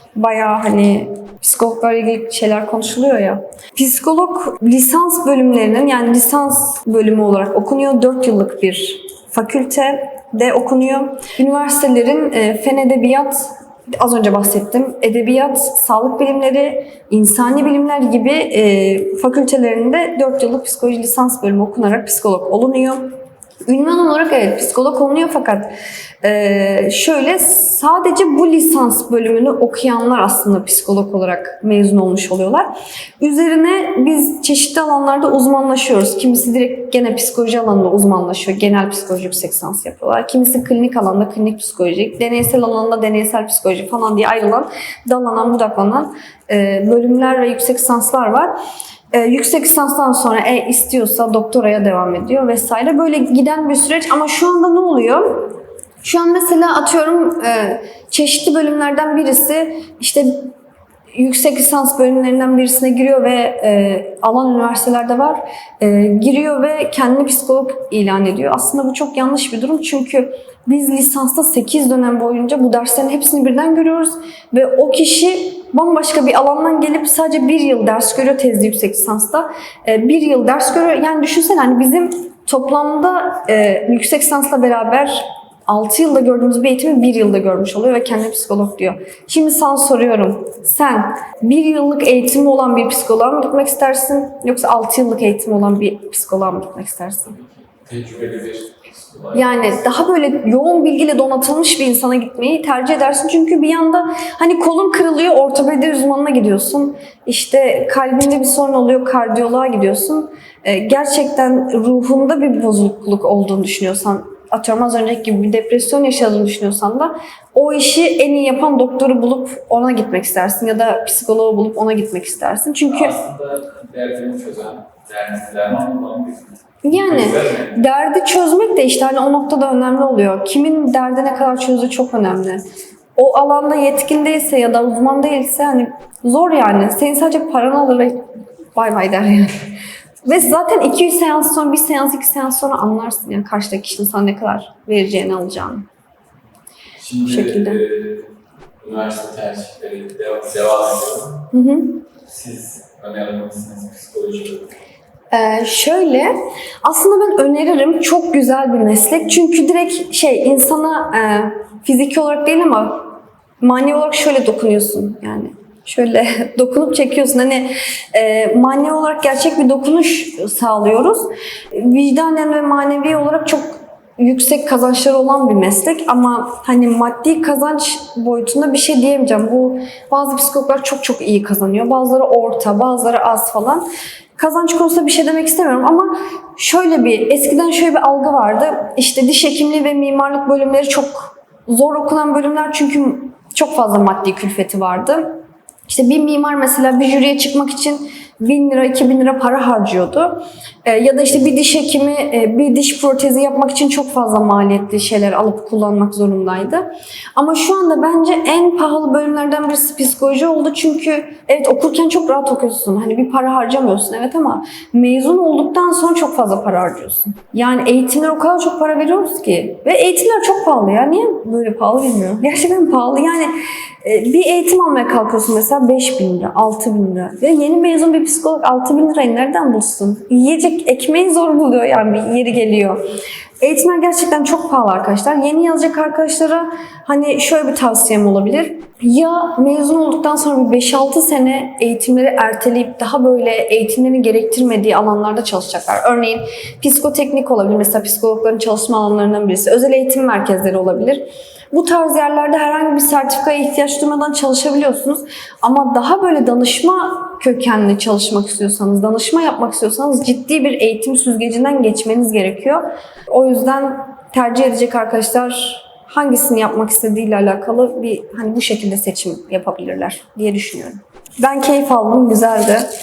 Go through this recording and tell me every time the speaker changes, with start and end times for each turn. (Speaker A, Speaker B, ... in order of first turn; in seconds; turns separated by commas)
Speaker A: 0.1-23.1, Speaker A: 23.7-32.7, Speaker A: 33.2-48.5, Speaker A: 49.1-60.5, Speaker A: 61.1-97.4, Speaker B: 97.4-99.7, Speaker A: 99.3-123.2, Speaker B: 122.9-127.8, Speaker A: 126.8-132.6, Speaker A: 133.2-139.7, Speaker A: 140.2-145.9, Speaker B: 147.0-148.3, Speaker A: 147.2-147.8, Speaker B: 148.8-151.5, Speaker A: 151.5-152.0, Speaker B: 152.3-154.7, Speaker A: 155.3-163.1, Speaker A: 163.6-183.8, Speaker A: 184.4-223.5, Speaker A: 224.0-233.0, Speaker A: 233.6-272.9